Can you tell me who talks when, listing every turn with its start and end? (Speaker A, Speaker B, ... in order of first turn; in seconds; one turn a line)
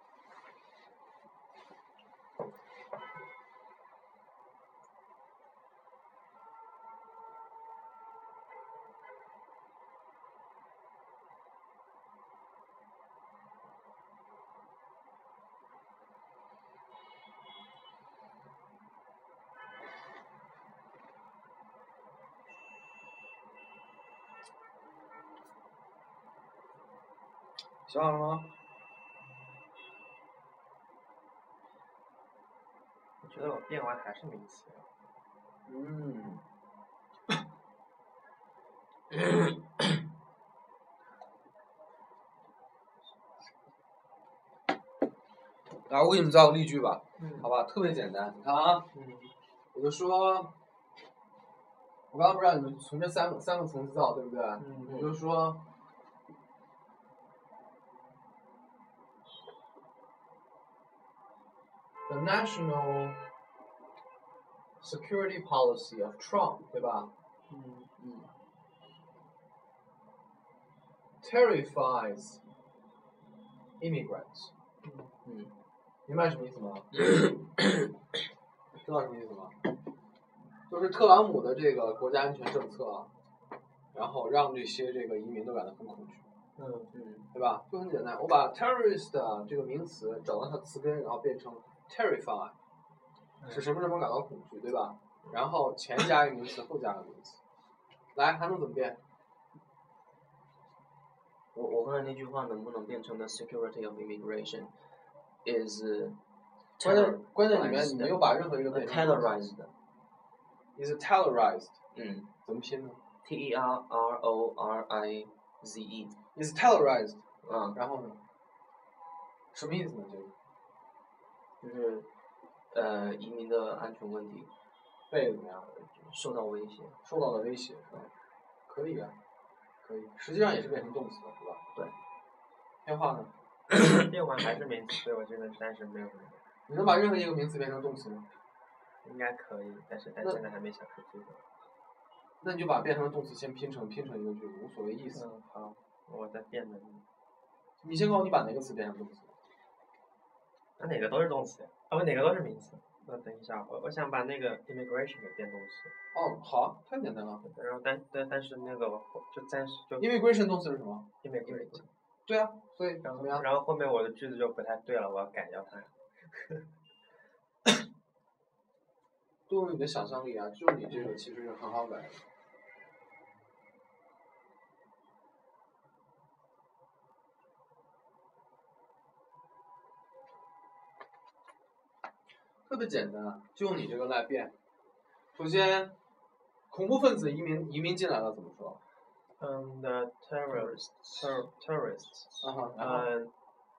Speaker A: 27.9-28.5
Speaker B: 33.2-34.9
Speaker A: 35.7-36.4
Speaker A: 45.9-48.9
Speaker B: 47.2-47.5
Speaker B: 48.9-49.3
Speaker A: 49.7-50.5
Speaker A: 52.1-55.6
Speaker B: 54.6-55.0
Speaker A: 62.1-63.2
Speaker A: 64.8-67.1
Speaker B: 67.5-67.9
Speaker C: 68.0-68.3
Speaker A: 71.2-72.4
Speaker A: 73.8-74.5
Speaker B: 74.8-75.2
Speaker C: 75.2-75.5
Speaker A: 76.1-77.1
Speaker A: 78.8-79.6
Speaker A: 80.7-83.1
Speaker A: 83.9-86.2
Speaker B: 86.6-86.9
Speaker C: 86.9-87.3
Speaker A: 87.3-92.5
Speaker B: 93.4-93.8
Speaker A: 93.5-97.4
Speaker A: 98.2-99.0
Speaker C: 101.5-104.7
Speaker C: 105.4-106.2
Speaker C: 106.8-109.7
Speaker A: 106.8-109.5
Speaker A: 110.8-111.8
Speaker C: 111.9-112.3
Speaker A: 112.4-113.0
Speaker C: 113.2-116.2
Speaker A: 116.3-117.2
Speaker C: 117.4-117.8
Speaker A: 117.7-118.2
Speaker A: 119.5-120.3
Speaker C: 121.6-122.1
Speaker C: 122.7-124.5
Speaker A: 125.1-125.7
Speaker C: 126.0-127.0
Speaker A: 127.0-128.1
Speaker A: 128.7-129.2
Speaker A: 129.8-131.6
Speaker A: 132.8-133.3
Speaker B: 134.0-136.4
Speaker A: 136.7-138.3
Speaker B: 139.0-141.4
Speaker A: 142.4-145.2
Speaker B: 145.1-147.0
Speaker A: 147.8-149.3
Speaker B: 150.8-155.9
Speaker A: 156.1-157.4
Speaker B: 157.4-160.3
Speaker A: 160.0-161.1
Speaker B: 161.2-161.9
Speaker C: 161.4-161.9
Speaker A: 162.3-163.5
Speaker B: 163.0-166.7
Speaker A: 169.5-172.2
Speaker A: 182.7-184.5
Speaker A: 185.3-185.9
Speaker A: 186.7-188.8
Speaker B: 189.4-193.3
Speaker C: 190.5-191.2
Speaker A: 192.4-193.1